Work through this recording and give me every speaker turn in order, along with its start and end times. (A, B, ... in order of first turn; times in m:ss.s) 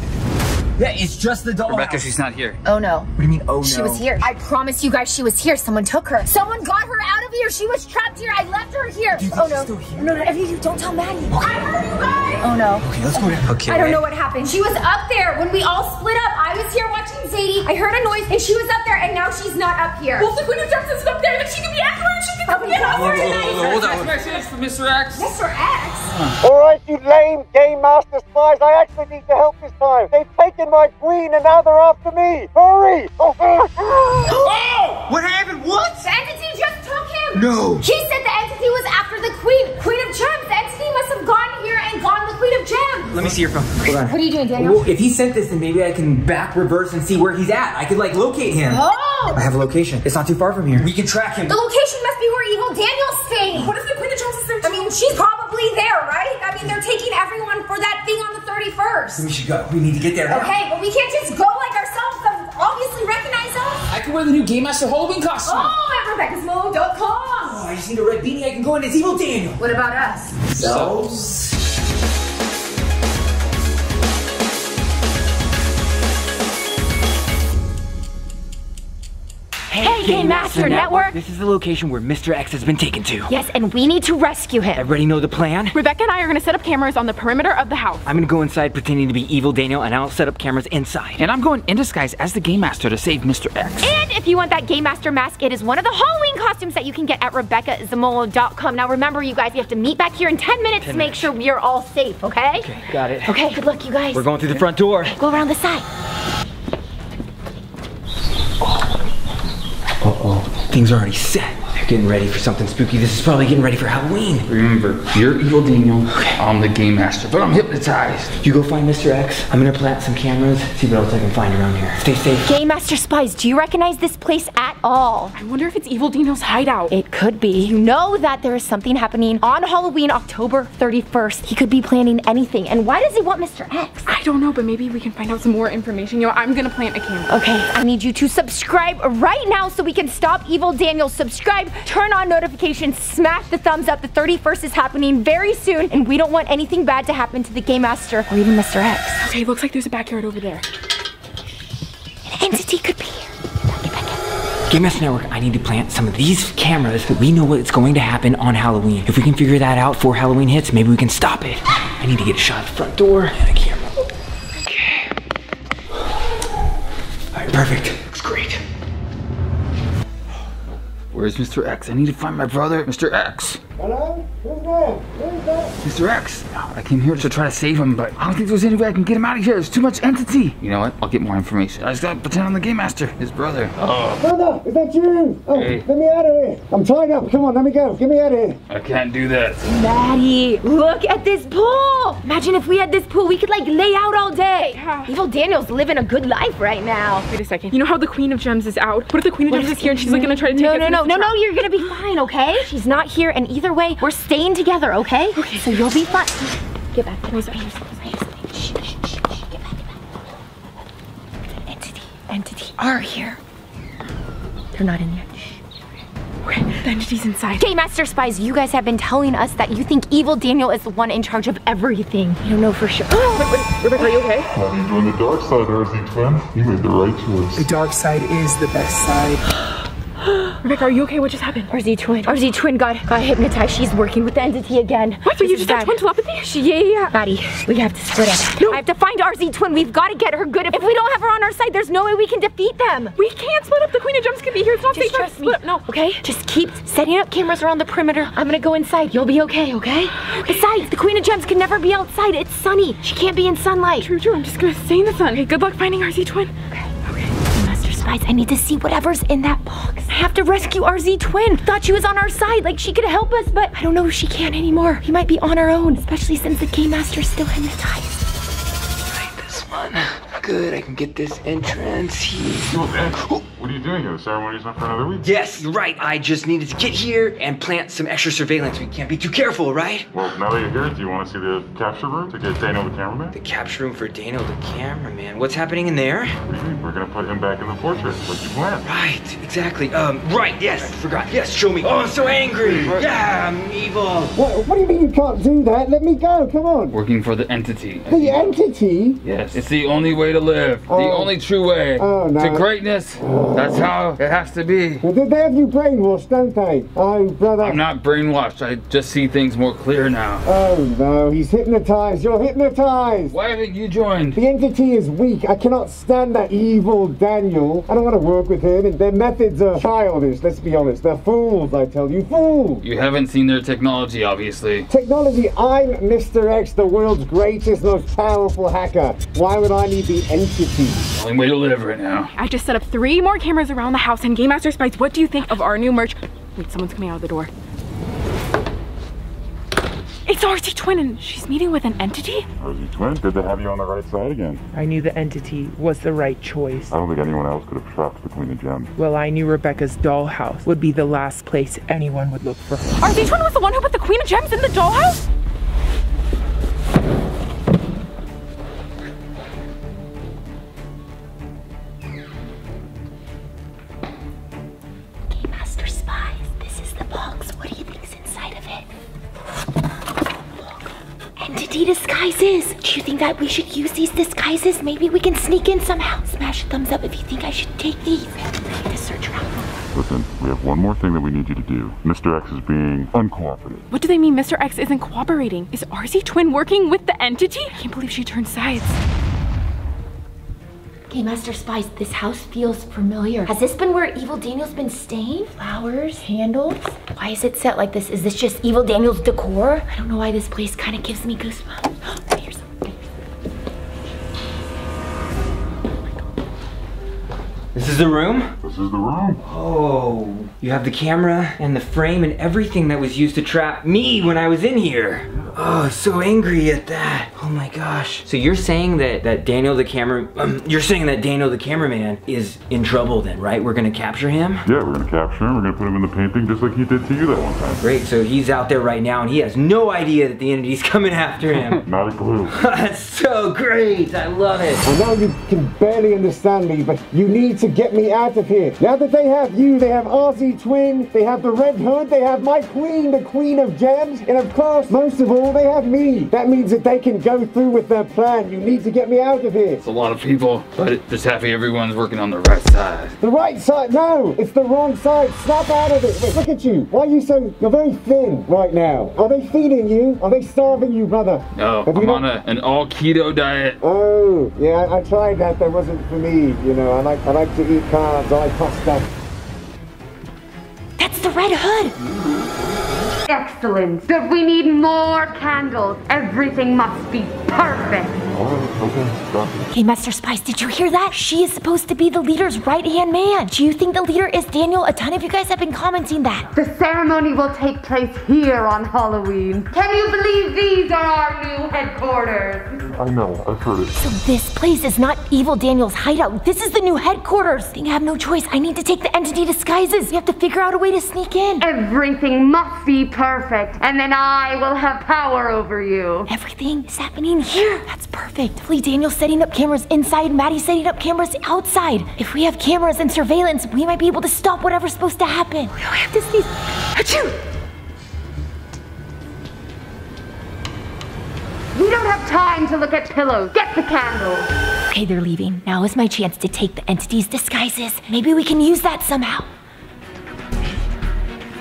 0:00.8-0:02.1 A
0:01.6-0:02.6 B
0:02.6-0:11.4 C
0:03.2-0:04.0 A
0:09.2-0:10.1 A
0:11.3-0:11.7 A
0:11.8-0:12.1 D
0:12.4-0:20.3 C
0:12.8-0:14.0 A
0:20.2-0:23.1 D
0:22.4-0:23.7 C
0:23.0-0:25.3 B
0:23.5-0:24.0 A
0:25.1-0:26.1 C
0:26.1-0:26.4 B
0:26.4-0:34.3 E
0:34.4-0:36.0 A
0:36.0-0:43.3 C
0:37.3-0:37.8 A
0:43.1-0:48.8 A
0:43.8-0:44.9 C
0:48.7-0:49.4 C
0:49.3-0:51.6 A
0:51.5-0:53.7 C
0:53.6-0:54.9 D
0:54.6-0:59.2 C
0:59.2-1:00.5 A
1:00.3-1:03.9 C
1:03.9-1:05.7 B
1:05.4-1:07.6 C
1:07.4-1:09.6 A
1:09.6-1:10.5 C
1:10.6-1:11.5 A
1:10.6-1:11.0 B
1:19.7-1:23.3 A
1:19.8-1:21.2 C
1:23.3-1:24.9 C
1:24.7-1:25.7 A
1:25.7-1:28.0 D
1:28.0-1:31.2 A
1:31.2-1:33.9 B
1:33.8-1:42.7 C
1:40.8-1:41.3 B
1:42.6-1:43.6 A
1:43.2-1:44.3 C
1:44.1-1:45.1 A
1:45.1-1:45.8 C
1:50.0-1:54.5 A
1:54.5-1:58.3 B
1:56.1-1:56.4 A
1:58.4-2:02.4 A
2:02.4-2:05.3 C
2:05.3-2:06.9 D
2:06.9-2:14.1 C
2:14.0-2:17.3 D
2:17.3-2:29.3 C
2:29.2-2:30.6 D
2:32.2-2:34.2 C
2:34.7-2:43.8 A
2:44.7-2:45.1 A
2:47.3-2:48.6 A
2:51.1-2:53.6 B
2:53.8-2:55.7 E
2:55.8-3:04.2 B
3:04.2-3:08.6 E
3:05.5-3:05.8 B
3:08.7-3:09.6 B
3:09.6-3:17.3 C
3:14.7-3:15.1 D
3:17.3-3:21.4 D
3:19.5-3:29.8 C
3:25.4-3:25.9 D
3:27.3-3:27.9 D
3:31.6-3:33.4 C
3:34.7-3:35.6 C
3:36.4-3:37.6 D
3:37.6-3:43.5 C
3:43.2-3:44.5 D
3:44.5-3:47.7 F
3:47.6-3:49.4 G
3:50.6-3:51.7 D
3:51.7-3:56.0 C
3:55.2-3:57.1 D
3:57.1-4:03.2 C
3:58.6-3:58.8 D
4:03.2-4:05.8 D
4:04.9-4:14.1 C
4:14.0-4:16.5 D
4:17.5-4:28.2 C
4:29.1-4:33.4 A
4:32.7-4:35.6 F
4:35.2-4:40.1 A
4:40.1-4:43.4 F
4:43.3-4:46.4 A
4:46.4-4:48.9 F
4:48.8-4:54.3 A
4:52.5-4:53.1 F
4:54.3-4:57.0 E
4:56.9-4:58.4 B
4:58.1-4:59.2 E
4:59.2-5:05.0 B
5:00.9-5:01.3 E
5:02.0-5:03.9 E
5:05.0-5:07.8 E
5:07.6-5:10.4 B
5:10.4-5:13.4 E
5:13.3-5:14.4 B
5:14.3-5:22.8 E
5:22.8-5:24.8 B
5:24.9-5:31.0 E
5:31.1-5:32.3 B
5:32.3-5:37.5 D
5:40.2-5:42.5 D
5:42.6-5:44.6 F
5:44.7-5:47.0 G
5:46.9-5:48.9 F
5:48.9-5:52.9 G
5:53.0-5:55.2 D
6:05.3-6:08.8 C
6:11.4-6:19.7 C
6:19.9-6:23.9 F
6:23.9-6:29.0 D
6:31.1-6:42.9 C
6:47.7-6:48.5 A
6:48.6-6:49.4 F
6:49.4-7:04.6 A
7:04.6-7:07.8 F
7:07.8-7:11.8 A
7:11.8-7:12.6 F
7:12.5-7:14.8 A
7:14.8-7:29.8 E
7:29.8-7:33.1 B
7:33.2-7:42.3 E
7:41.6-7:43.8 B
7:43.8-7:49.1 E
7:51.0-7:51.9 C
7:53.3-7:58.2 H
7:58.3-7:59.7 F
7:59.7-8:06.5 C
8:06.5-8:12.7 H
8:12.9-8:13.9 F
8:13.9-8:21.6 C
8:21.6-8:26.3 H
8:26.3-8:36.4 C
8:37.0-8:37.2 C
8:41.7-8:44.5 H
8:44.9-8:49.5 C